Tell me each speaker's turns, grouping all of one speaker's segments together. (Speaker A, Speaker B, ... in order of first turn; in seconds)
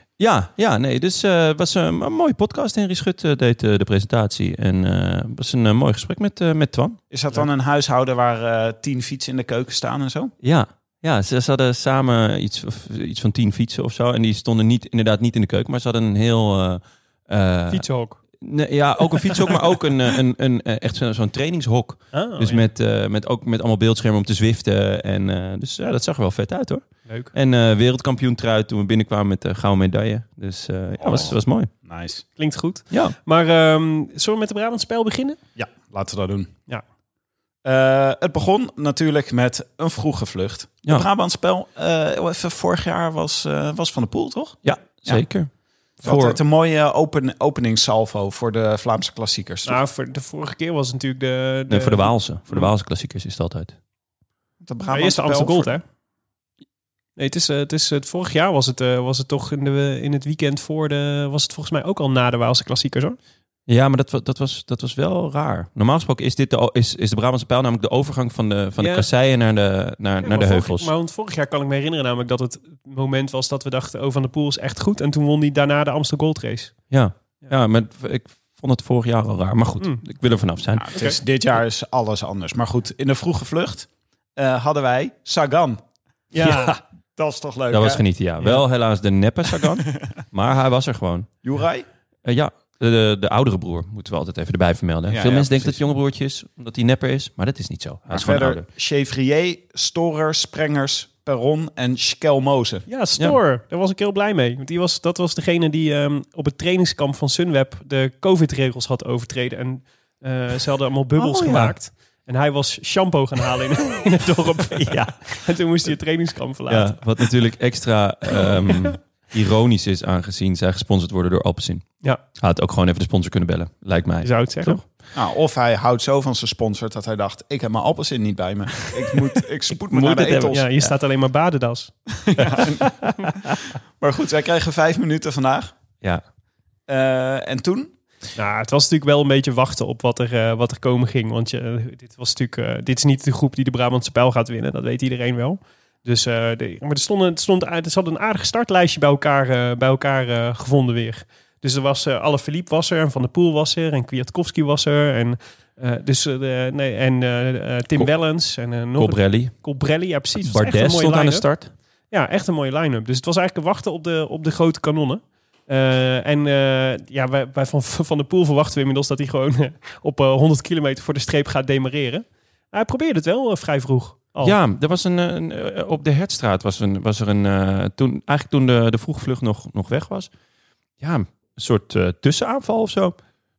Speaker A: 0.2-7.0, 10.4-17.9, 18.4-31.7, 32.9-33.2, 44.6-45.5, 46.0-46.4, 51.7-53.8, 63.7-70.9, 76.9-80.9, 87.7-91.3, 92.2-98.6, 111.2-111.8, 114.9-115.2, 116.7-124.9, 129.9-130.9, 132.6-133.5, 159.0-159.6, 160.4-161.7, 174.4-180.3, 181.0-183.2
Speaker B: 7.1-10.3, 31.0-32.2, 35.6-36.5, 37.6-45.3, 46.0-49.8, 54.6-55.8, 80.8-85.8, 86.4-88.0, 91.4-91.9, 95.1-95.8, 98.1-102.9, 125.1-130.7, 132.2-133.4, 134.0-135.7, 136.9-137.9
Speaker C: 17.7-18.2, 19.1-19.5, 22.1-22.6, 27.1-27.3, 32.4-35.4, 49.7-52.7, 54.9-55.8, 57.2-63.2, 68.8-69.1, 70.2-76.7, 86.3-86.8, 102.9-117.0, 118.4-118.9, 124.2-124.8, 130.5-131.9, 138.4-161.5, 162.1-174.6